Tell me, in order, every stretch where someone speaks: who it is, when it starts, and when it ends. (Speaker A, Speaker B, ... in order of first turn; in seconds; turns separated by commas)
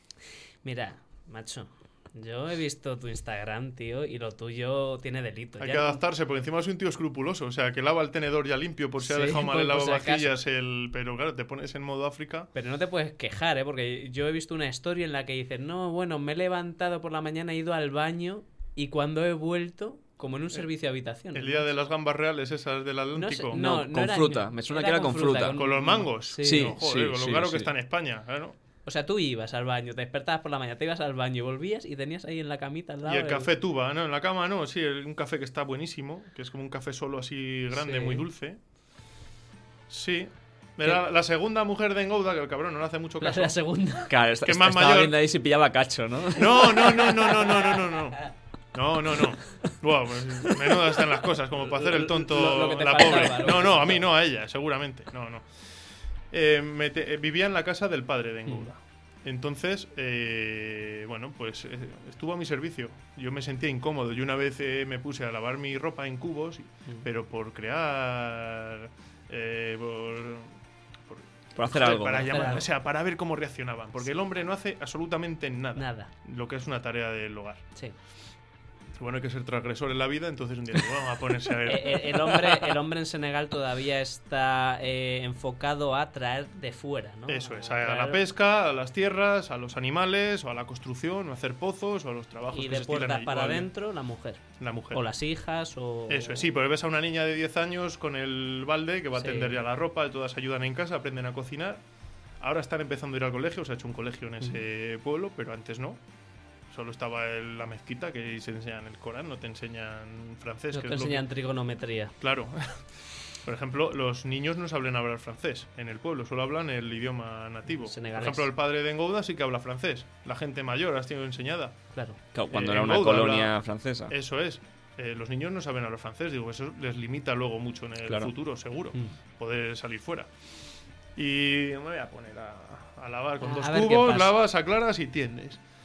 Speaker A: 0.6-6.0, Speaker B: 5.6-12.5, Speaker A: 9.0-10.3, Speaker A: 12.5-21.7, Speaker B: 21.3-23.7, Speaker A: 23.1-26.7, Speaker C: 23.5-25.6, Speaker B: 25.5-28.5, Speaker C: 26.4-27.7, Speaker A: 28.9-33.5, Speaker B: 33.0-38.6, Speaker A: 37.7-38.2, Speaker B: 39.9-43.5, Speaker A: 43.2-44.1, Speaker C: 44.1-47.1, Speaker B: 44.4-45.2, Speaker B: 46.3-55.4, Speaker A: 51.6-54.1, Speaker B: 56.3-70.5, Speaker B: 71.1-77.6, Speaker C: 71.5-72.3, Speaker A: 72.3-72.7, Speaker A: 75.8-76.1, Speaker B: 79.0-82.7, Speaker A: 81.7-88.2, Speaker B: 87.3-93.7, Speaker A: 92.5-96.5, Speaker B: 94.6-95.0, Speaker B: 96.1-101.8, Speaker A: 99.2-99.6, Speaker B: 102.4-106.0, Speaker B: 106.7-111.2, Speaker A: 110.7-112.1, Speaker B: 112.2-121.8, Speaker A: 117.7-118.5, Speaker C: 122.3-124.1, Speaker B: 122.5-123.6, Speaker B: 124.1-130.3, Speaker C: 128.1-128.3, Speaker B: 131.2-135.6, Speaker A: 133.4-134.4